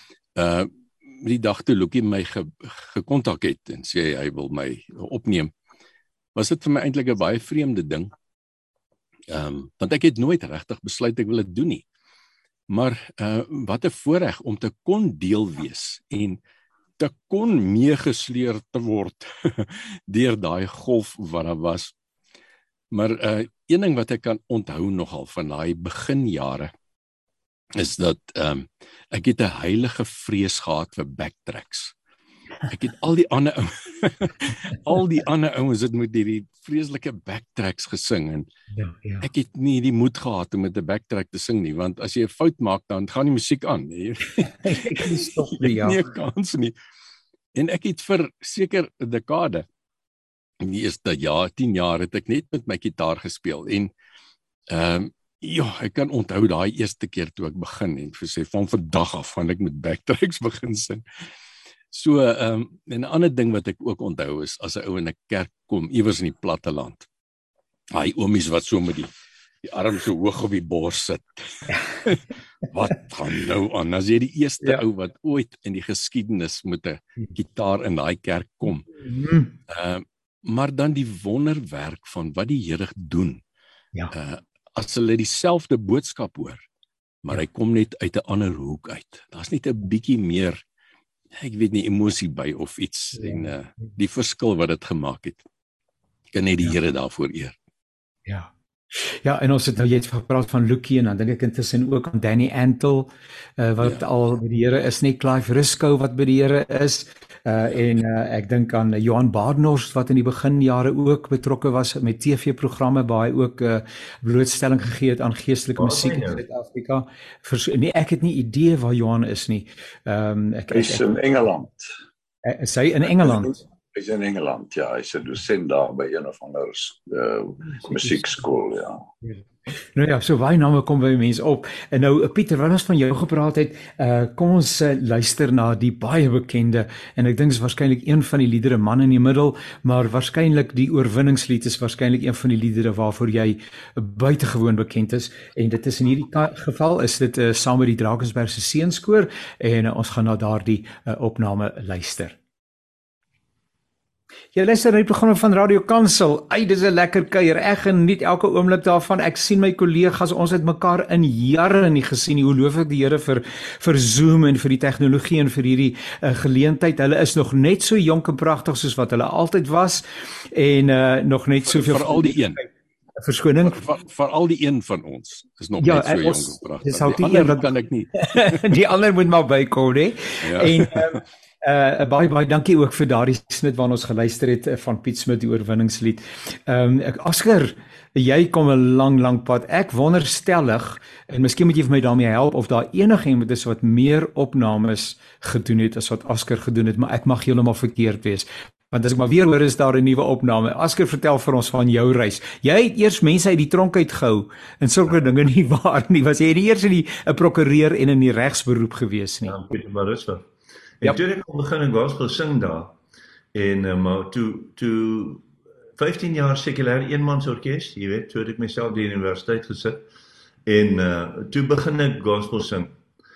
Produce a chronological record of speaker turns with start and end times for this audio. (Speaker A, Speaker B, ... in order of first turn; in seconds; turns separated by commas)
Speaker A: 0.4-5.5, Speaker A: 6.3-8.1, Speaker A: 9.3-11.8, Speaker A: 12.7-16.4, Speaker A: 17.0-21.9, Speaker A: 22.9-26.7, Speaker A: 27.7-31.9, Speaker A: 32.7-38.5, Speaker B: 38.7-39.3, Speaker A: 39.2-46.7, Speaker B: 44.6-46.0, Speaker A: 47.5-49.6, Speaker A: 50.6-53.9, Speaker A: 54.7-61.0, Speaker A: 61.9-67.0, Speaker A: 67.9-69.1, Speaker A: 69.6-78.9, Speaker B: 79.0-79.5, Speaker A: 79.7-83.4, Speaker A: 84.1-86.6, Speaker A: 87.2-90.6, Speaker A: 91.4-95.4, Speaker B: 93.2-93.5, Speaker A: 96.3-97.5, Speaker B: 98.2-121.1, Speaker C: 115.8-116.4, Speaker D: 120.7-121.9, Speaker B: 122.4-123.5, Speaker D: 123.1-129.0, Speaker B: 127.9-128.4, Speaker B: 129.9-152.4, Speaker B: 154.5-173.8, Speaker A: 171.7-172.6, Speaker A: 173.6-178.6, Speaker B: 175.8-209.5, Speaker A: 180.4-181.2, Speaker C: 209.4-210.4, Speaker C: 211.0-213.0, Speaker C: 213.5-220.0, Speaker C: 220.7-222.9